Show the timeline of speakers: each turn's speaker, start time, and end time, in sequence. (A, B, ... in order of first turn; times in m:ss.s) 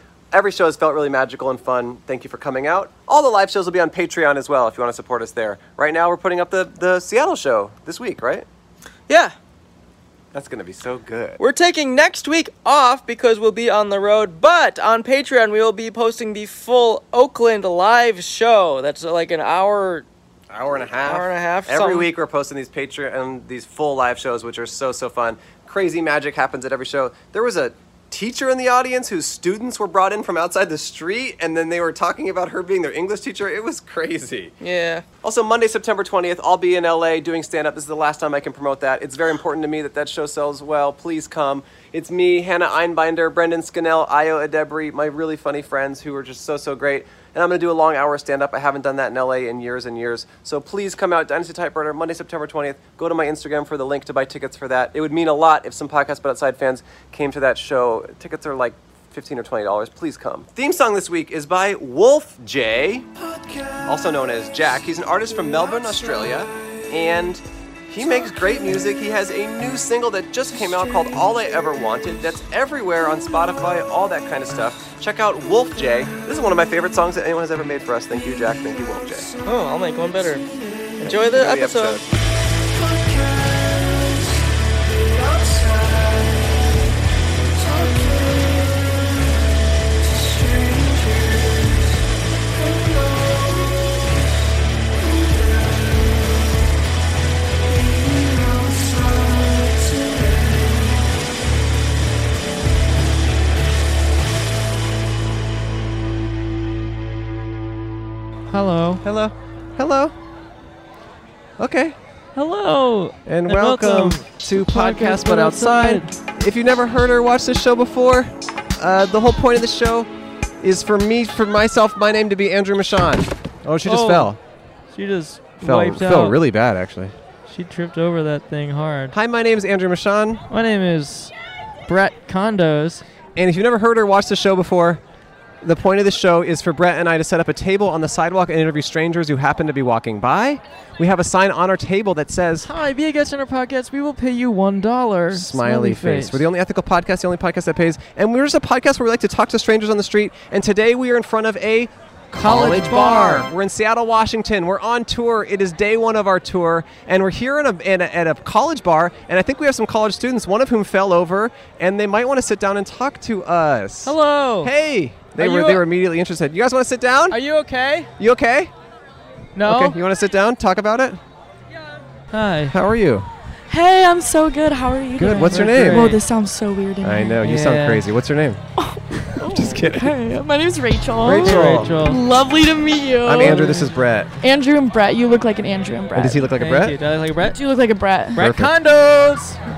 0:00.3-0:08.4 A
0:09.1-0:09.3 B
0:10.3-0:11.4 A
0:11.4-0:20.0 B
0:20.5-0:34.6 A
0:21.0-0:22.1 B
0:34.6-0:35.0 B
0:35.2-1:19.3 A
1:19.4-1:20.4 B
1:21.0-1:22.0 B
1:21.0-1:22.1 A
1:48.5-1:49.0 C
1:49.0-1:50.1 A
1:51.6-1:52.0 A
1:52.3-1:56.1 C
1:53.2-2:04.4 A
2:03.8-2:04.3 C
2:04.9-2:06.4 C
2:05.6-2:07.1 A
2:07.5-2:09.1 C
2:09.1-2:10.4 A
2:10.5-2:11.3 C
2:11.8-2:13.0 C
2:13.4-2:15.0 A
2:15.6-2:22.7 A
2:22.6-2:26.4 C
2:25.3-2:47.4 A
2:32.4-2:33.5 C
2:44.0-2:44.7 C
2:45.3-2:45.8 C
2:47.3-2:48.1 C
2:48.2-2:48.7 A
2:49.6-2:50.0 C
2:49.6-2:51.2 A
2:52.3-2:52.7 C
2:52.7-2:53.3 A
2:53.7-2:57.4 D
2:55.2-2:56.2 A
2:55.6-2:56.2 C
2:57.0-2:58.6 A
2:57.4-2:58.0 C
2:58.8-3:03.7 D
2:59.4-3:00.2 A
3:01.2-3:01.9 A
3:01.2-3:02.2 C
3:03.2-3:04.3 A
3:03.4-3:03.9 C
3:04.4-3:06.5 D
3:06.1-3:07.0 A
3:06.6-3:07.6 C
3:07.4-3:08.4 D
3:08.3-3:09.6 C
3:08.4-3:08.7 A